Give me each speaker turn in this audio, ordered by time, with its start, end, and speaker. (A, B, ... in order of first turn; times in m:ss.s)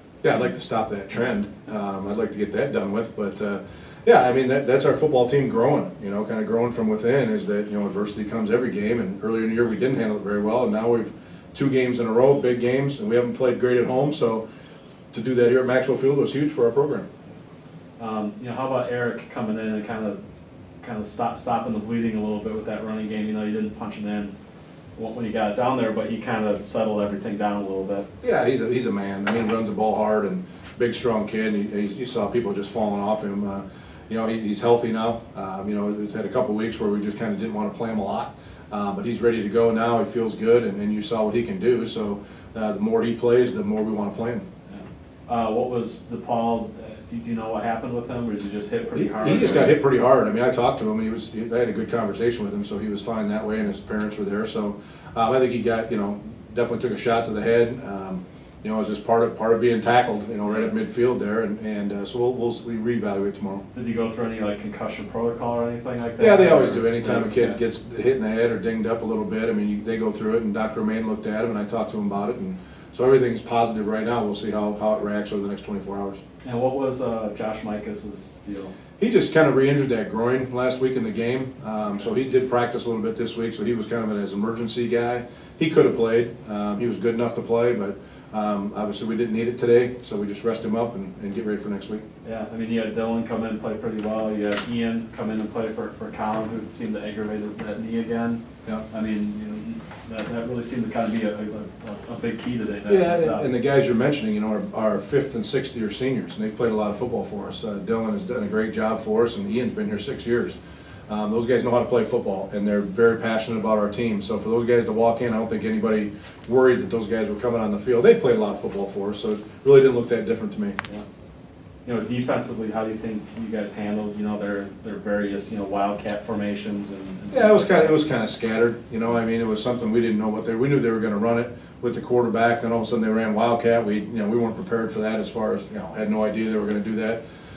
0:00.2-0:14.4 A
0:15.1-0:17.1 A
0:18.0-0:20.2 B
0:20.8-0:24.3 B
0:24.9-0:28.1 B
0:28.2-0:44.4 A
0:44.7-0:49.8 B
0:48.9-1:03.6 A
1:03.7-1:07.6 B
1:06.2-1:16.2 A
1:16.4-1:18.7 B
1:19.0-1:32.0 A
1:32.2-1:43.4 B
1:42.8-1:50.6 A
1:51.1-2:00.8 A
2:01.8-2:07.9 B
2:07.3-2:17.2 A